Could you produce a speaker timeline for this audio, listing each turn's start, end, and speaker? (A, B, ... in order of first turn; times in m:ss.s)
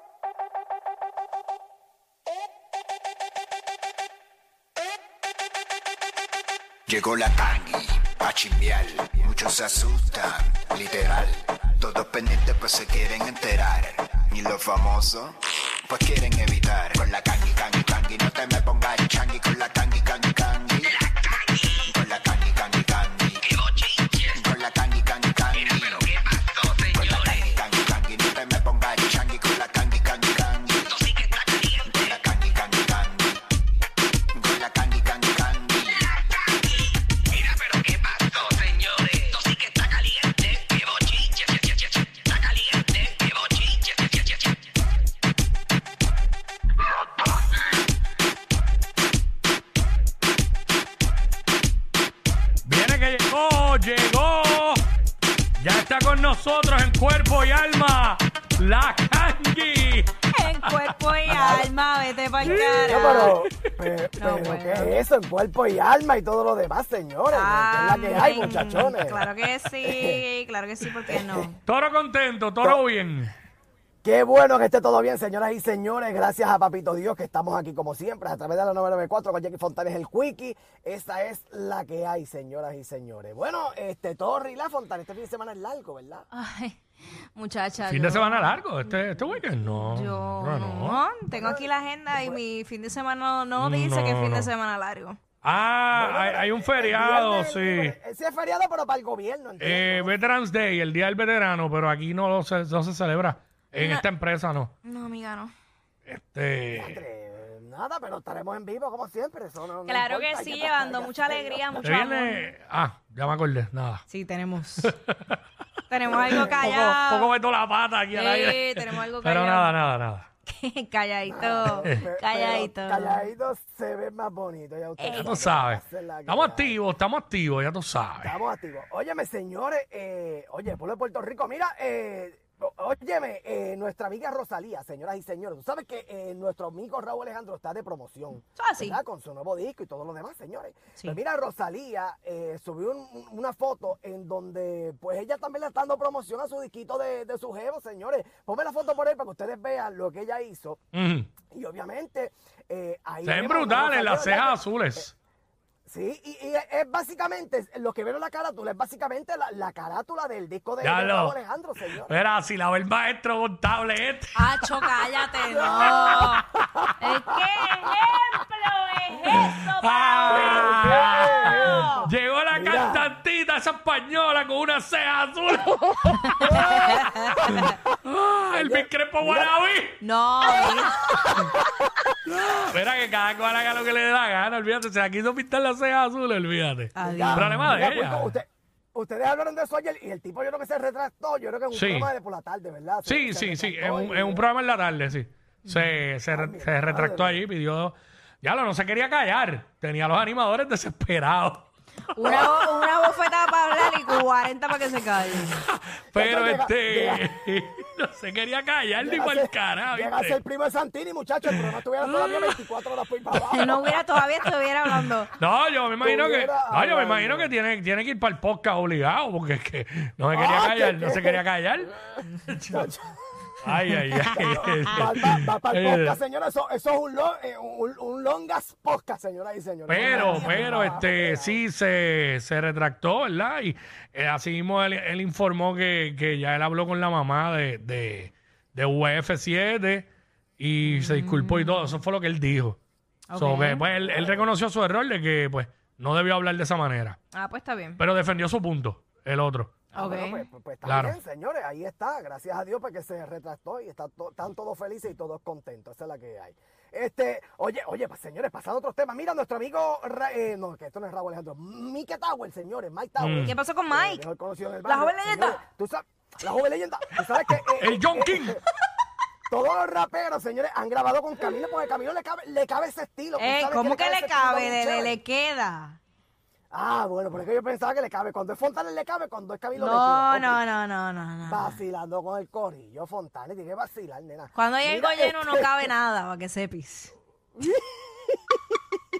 0:06.9-0:15.3 A
0:15.8-0:20.9 A
0:21.9-0:23.4 A
0:23.5-0:24.4 B
0:24.3-0:26.0 A
0:25.5-0:27.6 B
0:26.9-0:30.9 A
0:30.9-0:32.2 B
0:32.0-0:33.4 A
0:34.3-0:35.9 A
0:37.4-0:42.0 B
0:42.5-0:43.9 B
0:52.6-0:54.8 C
0:55.6-1:00.1 C
1:00.3-1:03.3 D
1:01.3-1:01.7 E
1:02.4-1:09.2 E
1:02.4-1:03.7 C
1:04.2-1:04.9 D
1:07.3-1:11.6 D
1:09.8-1:10.2 E
1:11.1-1:11.5 E
1:11.6-1:13.3 C
1:14.0-1:26.2 E
1:26.3-1:26.8 D
1:27.3-1:29.0 D
1:27.8-1:31.0 C
1:29.8-1:35.2 D
1:31.3-1:32.4 E
1:33.6-1:34.5 C
1:35.4-1:37.9 C
1:35.9-1:40.1 E
1:39.6-1:44.7 C
1:43.8-1:44.1 D
1:44.8-1:45.5 D
1:46.0-1:47.0 C
1:46.7-1:51.7 E
1:49.8-1:52.5 D
1:51.8-1:54.0 C
1:54.1-1:54.9 D
1:54.8-1:55.4 C
1:55.9-1:57.3 D
1:56.1-1:56.8 E
1:56.4-2:00.3 C
1:58.1-1:59.8 D
2:00.5-2:03.2 D
2:01.3-2:06.8 E
2:05.0-2:05.4 D
2:05.1-2:08.3 C
2:08.2-2:30.8 E
2:18.6-2:19.0 D
2:30.9-2:31.3 C
2:31.5-2:35.0 E
2:33.2-2:35.1 C
2:35.8-2:42.1 E
2:40.8-2:41.4 C
2:42.1-2:44.6 C
2:44.4-2:46.4 D
2:45.5-2:46.9 E
2:47.0-2:52.0 D
2:49.4-2:56.4 C
2:50.3-2:53.1 E
2:56.3-2:57.7 D
2:56.4-2:57.0 E
2:57.4-3:00.0 C
2:58.5-2:59.5 E
3:00.0-3:01.0 D
3:00.6-3:01.5 E
3:02.2-3:08.4 C
3:07.0-3:07.8 D
3:07.0-3:14.4 E
3:11.7-3:12.1 C
3:13.0-3:23.1 C
3:16.3-3:17.4 E
3:22.1-3:25.6 D
3:25.6-3:30.4 C
3:26.1-3:27.2 E
3:29.0-3:33.8 E
3:33.5-3:35.3 D
3:34.4-3:41.9 C
3:36.0-3:37.5 E
3:40.3-3:41.4 E
3:42.4-3:42.8 C
3:42.7-3:43.1 E
3:43.6-3:46.2 C
3:44.2-3:51.6 E
3:49.9-4:02.8 C
3:50.0-3:50.9 D
4:00.8-4:01.9 D
4:03.3-4:03.8 D
4:03.3-4:07.2 C
4:04.0-4:04.5 E
4:07.3-4:08.0 D
4:08.0-4:09.9 C
4:09.9-4:28.6 E
4:09.9-4:10.4 D
4:10.8-4:11.2 C
4:23.2-4:23.5 C
4:23.4-4:24.2 D
4:24.8-4:25.6 D
4:27.5-4:28.6 C
4:29.5-4:35.2 E
4:33.4-4:36.0 D
4:36.7-4:40.6 E
4:39.8-4:41.8 D
4:41.5-4:45.9 E
4:44.5-4:47.1 D
4:47.6-4:48.6 E